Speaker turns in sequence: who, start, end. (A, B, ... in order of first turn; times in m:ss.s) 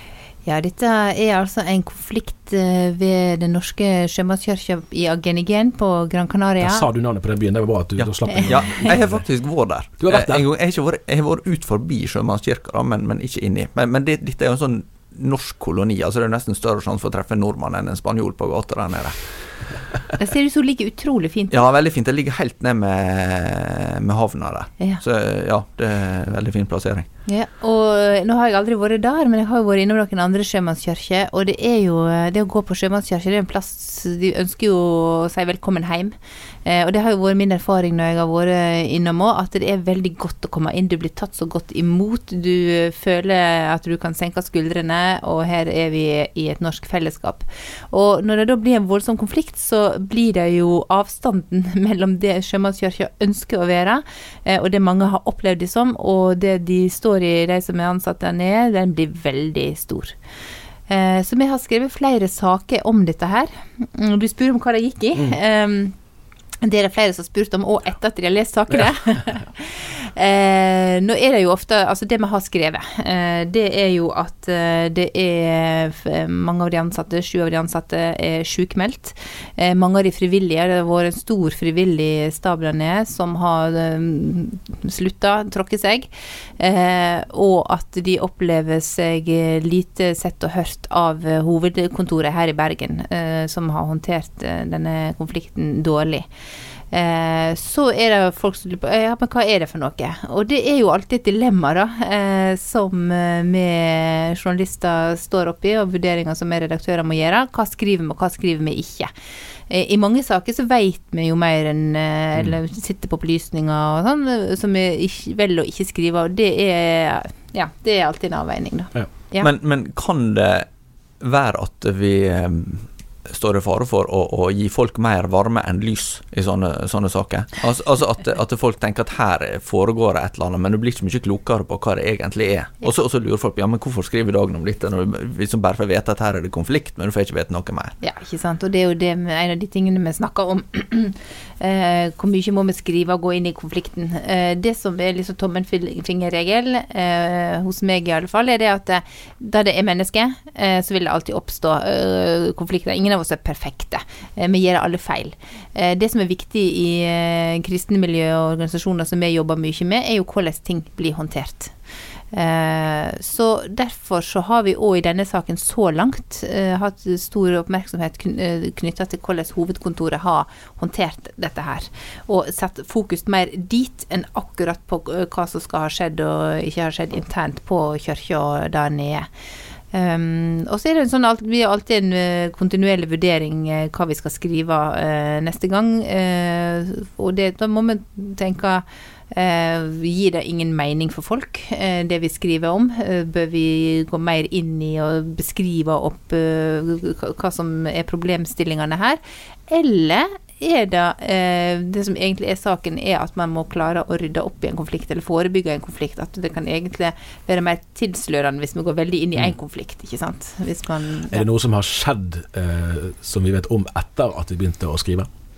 0:00.4-0:06.9 A
0:06.6-0:09.2 B
0:08.0-0:19.4 C
0:08.3-0:08.9 A
0:10.0-0:10.4 B
0:20.2-0:21.6 A
0:21.5-0:27.1 C
0:27.3-1:00.2 A
1:00.9-1:06.0 A
1:06.6-1:26.1 A
1:26.6-1:36.3 A
1:36.9-1:49.1 A
1:49.7-1:59.5 A
1:59.4-2:00.7 C
2:01.2-2:18.0 C
2:18.0-2:41.7 A
2:42.3-2:59.3 A
2:59.9-3:31.4 A
3:31.3-3:35.3 B